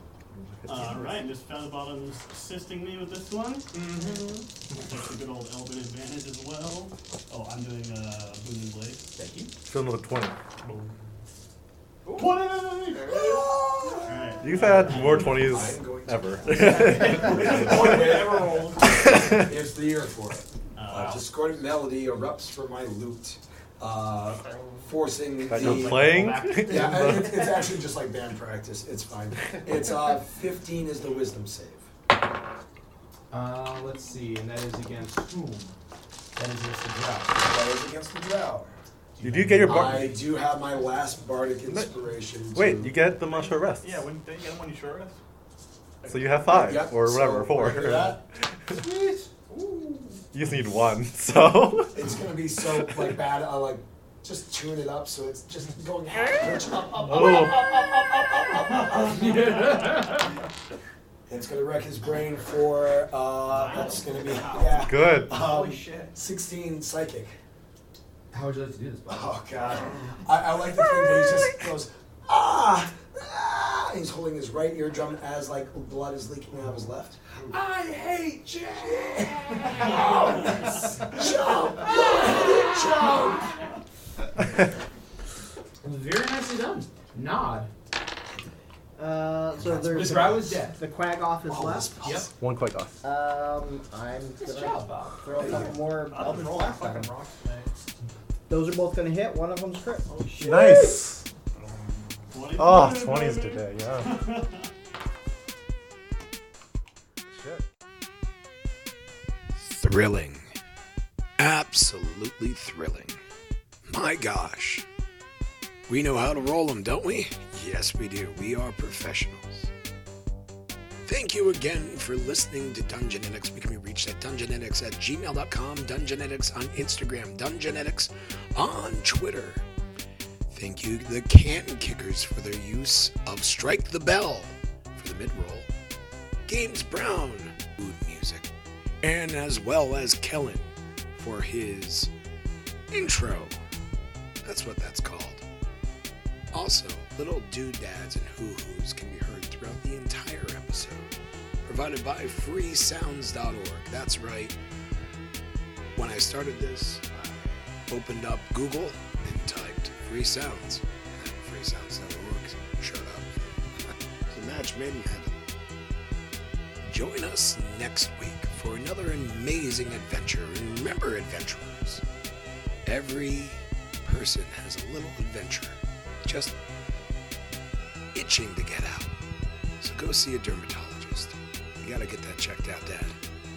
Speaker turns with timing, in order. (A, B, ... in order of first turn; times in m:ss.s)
0:00.3-0:01.2 A
0:00.7-0:03.7 B
0:03.7-0:04.4 C
0:04.7-0:09.1 B
0:09.2-0:09.5 C
0:09.6-0:10.4 A
0:12.0-0:13.5 D
0:13.4-0:14.0 E
0:14.1-0:15.4 D
0:14.1-0:15.3 B
0:14.4-0:17.5 A
0:15.4-0:18.6 E
0:16.4-0:19.2 D
0:19.0-0:19.4 A
0:19.3-0:31.8 E
0:20.8-0:21.2 B
0:20.9-0:21.2 D
0:25.5-0:27.6 A
0:25.6-0:27.3 C
0:33.3-0:35.8 C
0:36.4-0:37.4 C
0:37.4-0:38.8 E
0:39.2-0:40.2 C
0:39.2-0:40.2 A
0:39.6-0:43.0 E
0:41.7-0:42.0 A
0:42.5-0:44.0 A
0:43.7-0:45.2 D
0:46.0-0:48.8 A
0:46.4-0:48.2 E
0:48.7-0:50.0 C
0:50.3-0:52.1 A
0:51.9-0:59.5 E
0:57.1-0:57.5 A
0:58.7-1:00.3 C
1:01.3-1:07.4 E
1:03.5-1:06.2 D
1:04.9-1:05.5 A
1:08.3-1:09.8 C
1:09.1-1:17.6 E
1:17.5-1:20.6 C
1:19.2-1:23.6 E
1:25.8-1:27.7 C
1:29.0-1:32.0 F
1:29.7-1:30.8 C
1:31.4-1:32.3 E
1:32.0-1:32.3 C
1:32.4-1:33.0 A
1:33.0-1:37.1 F
1:34.6-1:34.9 D
1:35.3-1:35.8 E
1:35.4-1:37.7 D
1:38.5-1:41.0 F
1:40.2-1:40.7 D
1:40.4-1:41.3 A
1:40.6-1:41.0 C
1:41.5-1:42.5 D
1:42.3-1:44.7 B
1:42.5-1:44.3 A
1:49.6-1:50.5 G
1:51.4-1:53.2 G
1:53.9-1:54.9 G
1:55.9-1:59.7 G
2:01.1-2:09.6 G
2:10.5-2:15.7 G
2:16.5-2:18.5 G
2:19.0-2:22.1 G
2:22.9-2:23.6 G
2:24.4-2:25.4 G
2:26.5-2:31.1 G
2:31.6-2:34.6 G
2:36.0-2:45.4 G
2:46.8-2:52.0 G
2:52.8-2:56.6 G
2:58.1-2:59.2 G
2:59.8-3:03.2 G